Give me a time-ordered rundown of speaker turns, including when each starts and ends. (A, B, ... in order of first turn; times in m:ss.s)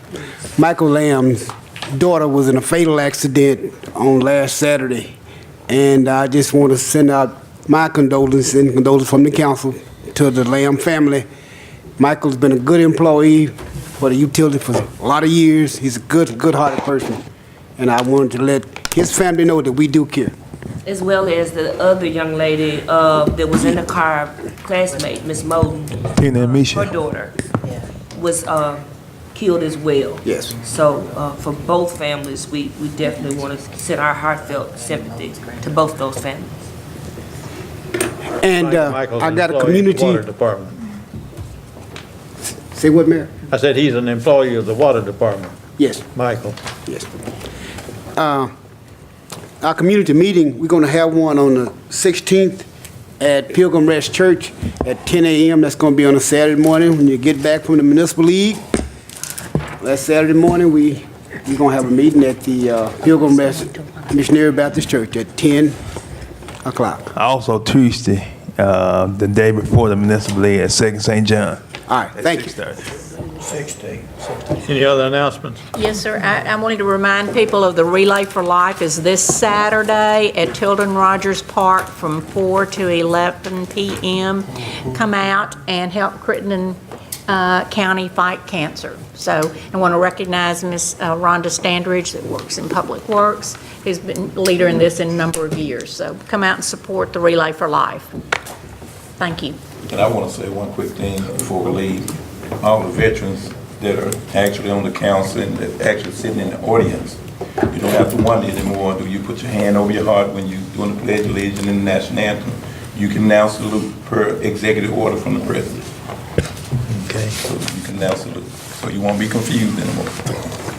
0:00.6-0:05.1 A
0:05.7-0:11.2 A
0:12.0-0:17.2 A
0:17.8-0:20.3 A
0:20.8-0:27.4 B
0:26.2-0:26.9 C
0:28.1-0:36.5 B
0:30.2-0:30.5 A
0:38.4-0:40.2 A
0:38.5-0:40.7 D
0:42.7-0:43.3 A
0:43.5-0:45.6 D
0:45.8-0:46.0 A
0:46.1-0:46.6 D
0:48.2-0:48.5 A
0:49.6-0:52.7 A
0:53.2-0:58.6 A
0:59.8-1:05.8 A
1:06.6-1:07.1 A
1:07.1-1:11.6 C
1:11.9-1:12.6 A
1:12.2-1:12.8 C
1:14.6-1:15.6 D
1:15.7-1:38.1 E
1:39.2-1:39.6 E
1:39.9-1:55.8 F
1:57.4-2:00.3 F